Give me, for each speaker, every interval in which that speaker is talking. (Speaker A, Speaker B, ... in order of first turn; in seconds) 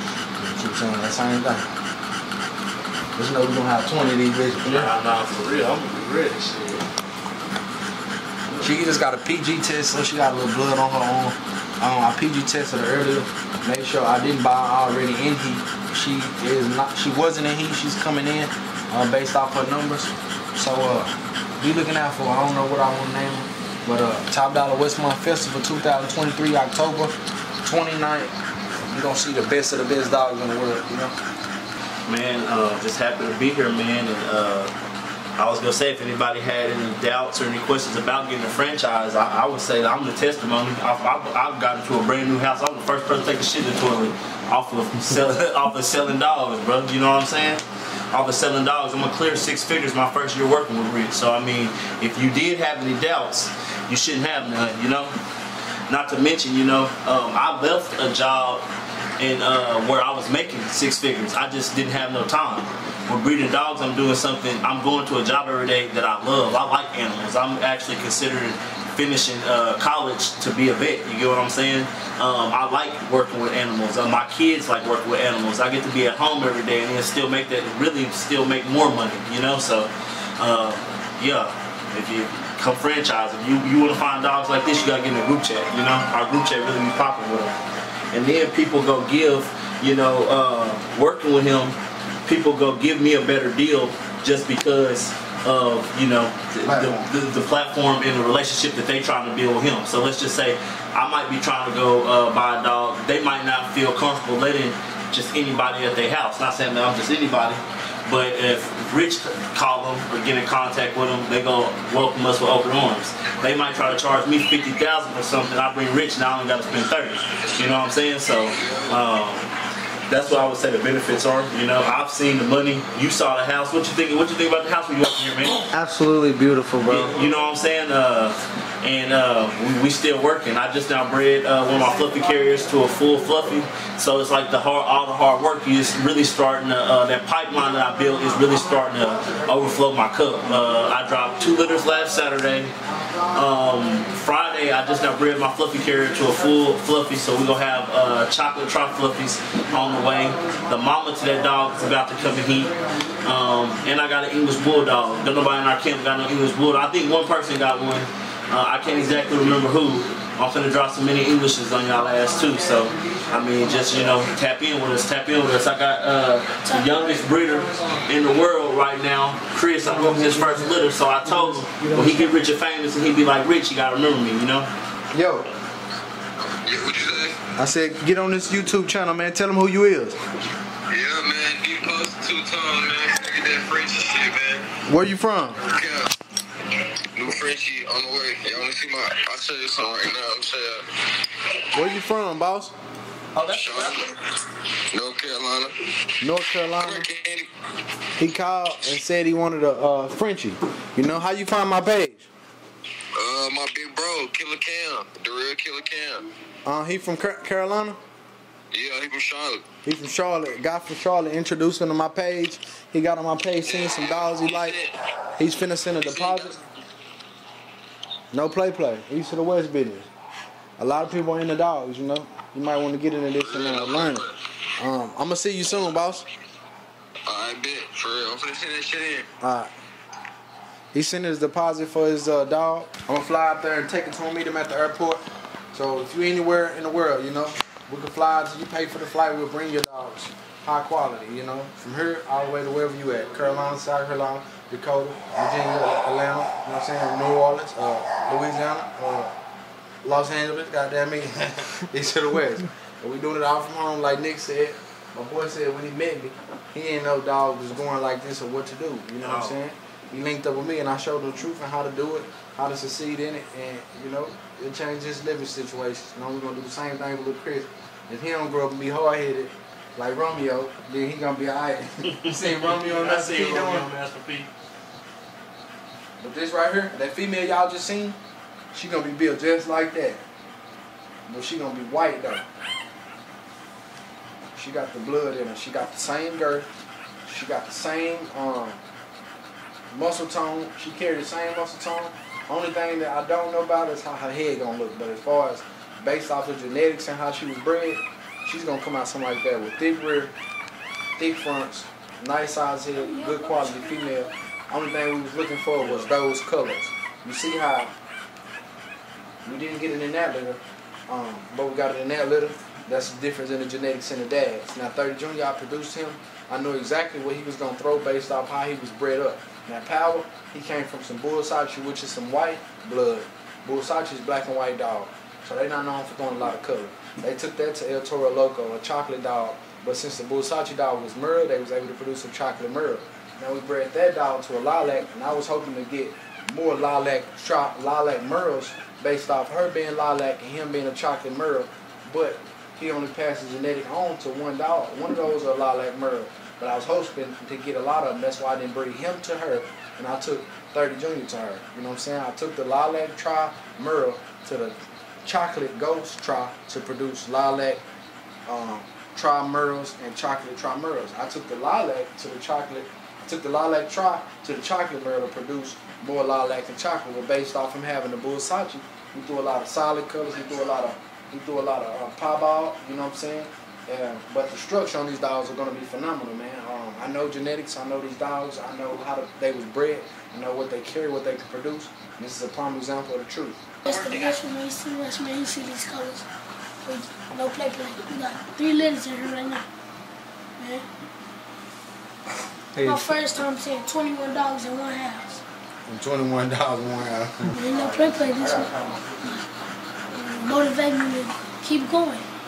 Speaker A: 0.4-1.7, 3.2-4.9, 8.6-28.4, 28.9-31.1, 96.6-97.1, 125.7-127.2, 131.6-133.5, 137.6-139.9, 140.4-141.2, 142.8-144.2, 144.8-145.2, 145.9-146.6, 149.7-153.7, 161.9-164.3, 167.3-168.1, 169.8-172.3, 175.1-175.5, 177.6-180.2, 184.8-185.6, 191.7-192.7, 196.2-197.1, 198.2-202.3, 206.7-208.0, 209.8-216.6, 218.3-220.1, 220.8-226.3, 229.4-229.7, 230.9-235.2, 235.7-249.3, 250.0-273.9, 276.2-278.2, 278.7-280.2, 281.3-282.4, 284.6-286.7, 287.2-288.8, 289.9-300.3, 301.2-307.9, 309.4-357.8, 358.5-383.6, 392.8-393.1, 395.9-399.4
Speaker B: 4.6-6.9, 32.1-34.7, 35.4-55.1, 55.9-58.6, 59.2-87.5, 88.1-119.5, 120.1-125.7, 126.9-142.8, 143.3-174.7, 193.4-194.1, 259.2-259.6, 272.1-274.5, 305.8-306.1
Speaker C: 176.4-177.4, 180.9-184.7, 185.6-186.1, 187.2-190.9, 193.6-194.1, 194.9-195.8, 196.8-197.5, 203.2-206.3, 208.7-209.6, 213.8-214.9, 223.4-224.3, 227.3-229.3
Speaker D: 303.0-304.3, 383.8-386.3, 386.8-389.7, 390.6-390.9, 392.8-395.4, 397.5-398.7, 400.1-402.3